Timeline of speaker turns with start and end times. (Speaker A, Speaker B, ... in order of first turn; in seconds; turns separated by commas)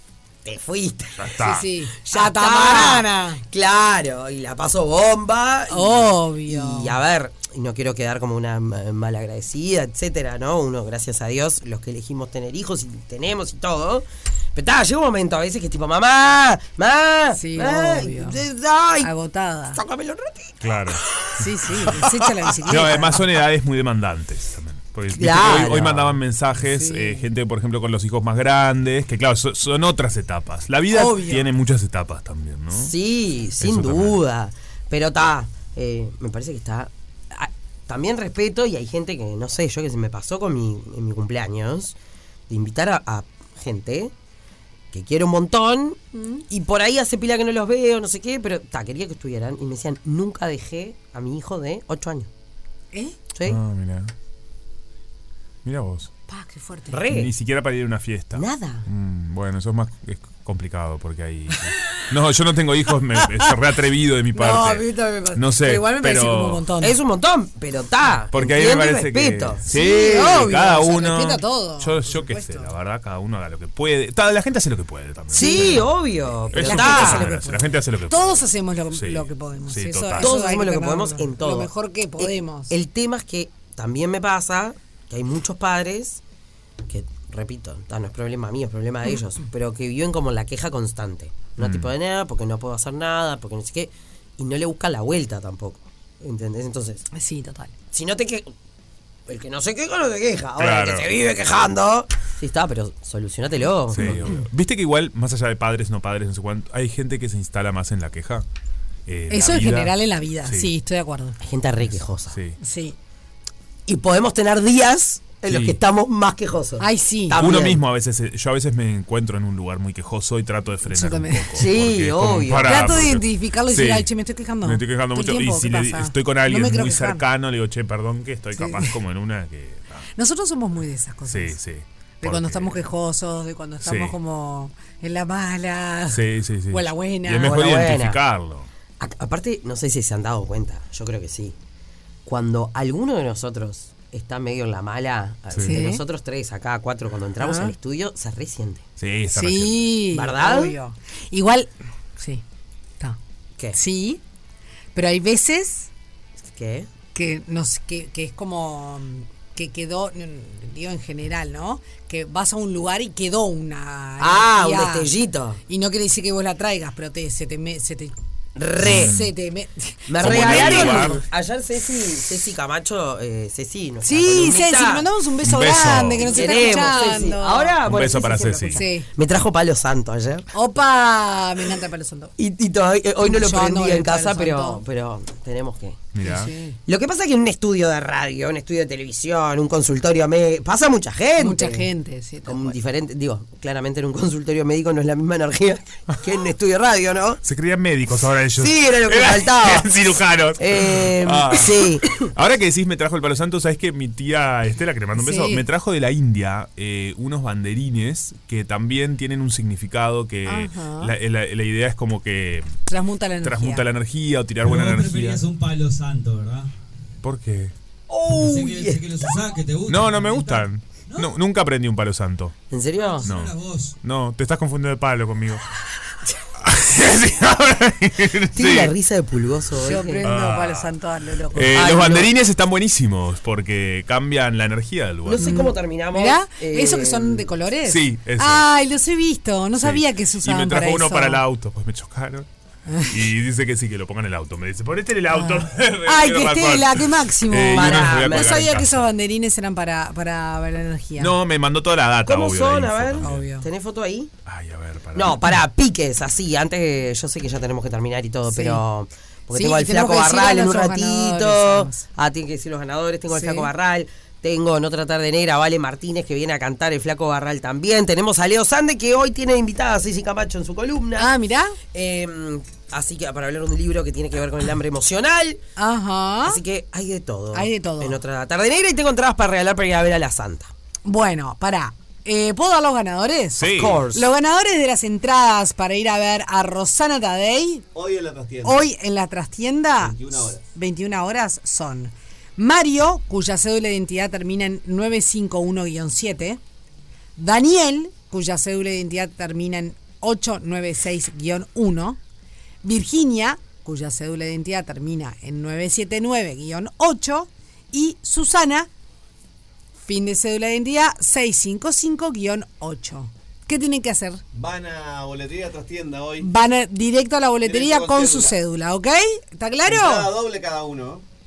Speaker A: 0.4-1.3, Speaker B: 1.1-1.7, Speaker C: 1.4-3.4, Speaker A: 2.0-19.1, Speaker C: 5.7-6.9, Speaker C: 17.3-18.4, Speaker C: 19.0-19.8, Speaker A: 19.7-21.3, Speaker B: 20.6-21.4, Speaker C: 21.4-23.3, Speaker B: 22.7-32.9, Speaker A: 25.1-26.2, Speaker C: 26.6-27.2, Speaker C: 30.9-31.5, Speaker A: 32.7-42.0, Speaker B: 33.6-34.2, Speaker A: 42.5-44.1, Speaker A: 44.9-52.3, Speaker C: 46.1-46.4, Speaker A: 53.3-53.6, Speaker B: 53.5-54.1, Speaker B: 55.6-56.1, Speaker C: 56.3-57.0, Speaker A: 56.9-57.3, Speaker B: 57.1-66.7, Speaker A: 58.3-58.9, Speaker C: 64.3-67.0, Speaker A: 66.8-70.4, Speaker B: 68.3-76.0, Speaker C: 69.7-72.7, Speaker A: 75.3-77.3, Speaker C: 75.3-75.9, Speaker C: 76.4-82.7, Speaker B: 76.5-80.3, Speaker A: 80.2-86.2, Speaker A: 86.9-97.0, Speaker B: 91.6-91.9, Speaker C: 97.1-97.7, Speaker A: 97.9-98.5, Speaker A: 99.3-104.4, Speaker B: 100.6-101.1, Speaker B: 103.9-108.5, Speaker B: 109.1-110.7, Speaker C: 109.3-111.4, Speaker A: 111.4-112.4, Speaker B: 112.3-112.6, Speaker C: 112.6-112.9, Speaker A: 113.9-117.8, Speaker B: 115.5-115.8, Speaker C: 116.8-117.4, Speaker B: 117.3-124.1, Speaker C: 120.8-121.6, Speaker A: 121.5-122.9, Speaker C: 122.6-127.2, Speaker B: 124.6-130.1, Speaker C: 128.6-128.9, Speaker C: 130.1-131.6, Speaker B: 131.3-132.9, Speaker C: 132.2-137.6, Speaker B: 133.8-134.1, Speaker B: 136.1-138.7, Speaker A: 137.4-138.2, Speaker A: 139.0-141.6, Speaker A: 142.2-148.8, Speaker C: 145.6-146.0, Speaker C: 147.4-147.7, Speaker B: 149.0-149.9, Speaker C: 149.3-152.4, Speaker A: 150.1-150.7, Speaker C: 153.7-154.2, Speaker C: 154.9-155.9, Speaker A: 156.5-156.9, Speaker C: 157.1-165.1, Speaker A: 164.2-165.6, Speaker C: 165.7-168.1, Speaker A: 168.6-169.1, Speaker B: 168.8-169.3, Speaker C: 168.8-171.2, Speaker A: 170.1-175.1, Speaker B: 170.2-171.2, Speaker C: 174.0-177.8, Speaker B: 175.4-176.7, Speaker A: 176.0-180.5, Speaker B: 177.8-178.8, Speaker C: 178.7-179.1, Speaker C: 180.5-182.3, Speaker A: 182.4-186.1, Speaker C: 183.2-184.8, Speaker B: 186.1-186.5, Speaker C: 186.2-186.8, Speaker A: 186.9-191.9, Speaker C: 191.4-192.8, Speaker A: 192.4-197.4, Speaker B: 197.4-212.7, Speaker A: 198.6-199.9, Speaker A: 200.6-202.3, Speaker C: 205.2-205.6, Speaker C: 210.4-211.1, Speaker C: 212.9-213.8, Speaker B: 213.4-215.4, Speaker D: 214.6-216.7, Speaker B: 217.2-217.7, Speaker A: 218.1-219.1, Speaker D: 218.3-221.3, Speaker B: 219.9-222.5, Speaker A: 222.7-223.3, Speaker D: 223.2-223.9, Speaker B: 223.2-225.6, Speaker B: 226.6-228.9, Speaker A: 228.6-230.2, Speaker C: 229.8-231.8, Speaker B: 230.2-230.9, Speaker B: 231.5-235.6, Speaker A: 231.7-232.3, Speaker A: 235.3-237.5, Speaker C: 235.4-241.4, Speaker B: 237.8-238.7, Speaker B: 239.8-242.5, Speaker C: 242.9-243.2, Speaker B: 243.1-249.1, Speaker C: 245.3-251.3, Speaker A: 247.7-248.7, Speaker B: 251.2-253.5, Speaker A: 252.3-254.3, Speaker C: 253.2-253.7, Speaker B: 254.4-255.6, Speaker A: 255.1-271.3, Speaker C: 258.5-258.8, Speaker C: 259.5-262.1, Speaker C: 263.3-263.7, Speaker C: 271.2-271.8, Speaker A: 271.8-275.6, Speaker C: 275.8-276.6, Speaker A: 276.4-280.7, Speaker C: 277.5-278.2, Speaker C: 281.1-287.8, Speaker B: 283.6-284.1, Speaker A: 283.6-284.3, Speaker E: 287.9-288.9, Speaker C: 288.6-296.6, Speaker E: 290.0-290.6, Speaker C: 297.4-302.2, Speaker C: 302.8-308.9, Speaker C: 310.1-314.4, Speaker E: 314.5-316.5, Speaker C: 316.4-320.3, Speaker E: 317.6-318.6, Speaker E: 319.9-321.2